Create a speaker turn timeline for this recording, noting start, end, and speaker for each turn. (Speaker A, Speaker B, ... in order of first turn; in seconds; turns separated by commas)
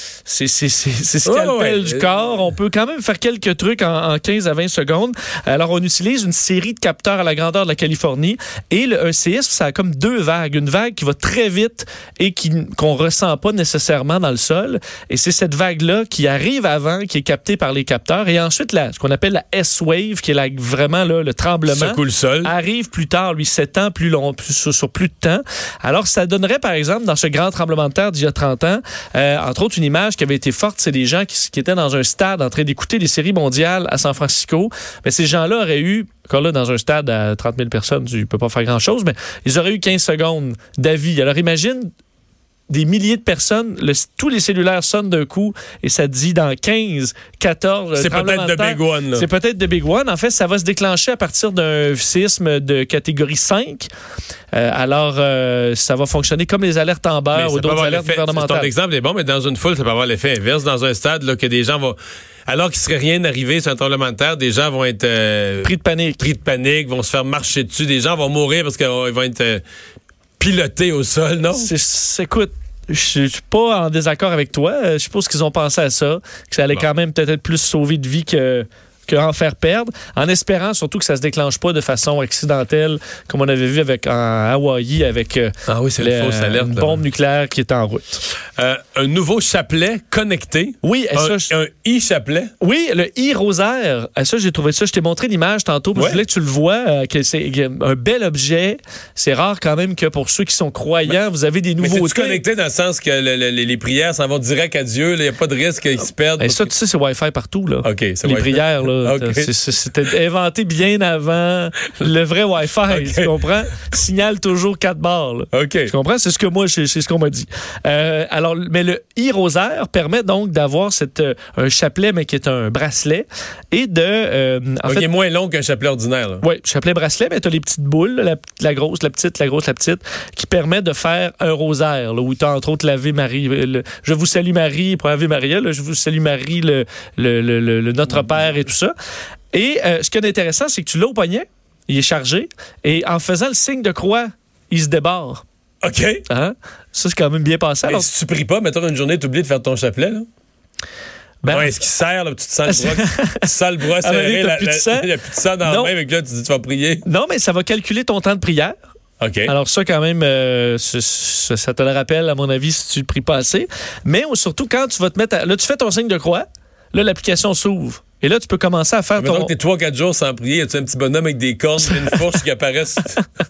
Speaker A: 0.2-41.9, Speaker B: 1.2-2.1, Speaker B: 21.7-22.5, Speaker A: 42.7-53.9, Speaker B: 48.0-49.3, Speaker A: 54.5-58.7, Speaker B: 57.3-69.6, Speaker A: 65.6-66.2, Speaker B: 70.4-71.7, Speaker A: 71.5-88.2, Speaker B: 85.7-87.0, Speaker B: 88.6-92.5, Speaker A: 90.8-91.5, Speaker A: 92.6-102.4, Speaker B: 96.0-96.2, Speaker B: 101.8-106.7, Speaker A: 106.4-125.1, Speaker B: 107.8-109.5, Speaker B: 112.9-113.3, Speaker B: 115.5-115.9, Speaker B: 124.8-126.4, Speaker A: 126.4-138.9, Speaker A: 139.5-145.4, Speaker B: 145.8-146.2, Speaker A: 146.3-148.1, Speaker B: 147.9-150.2, Speaker A: 151.4-151.7, Speaker B: 151.5-157.0, Speaker A: 152.7-155.9, Speaker A: 157.0-158.8, Speaker B: 159.2-159.5, Speaker A: 159.4-169.5, Speaker B: 169.2-173.2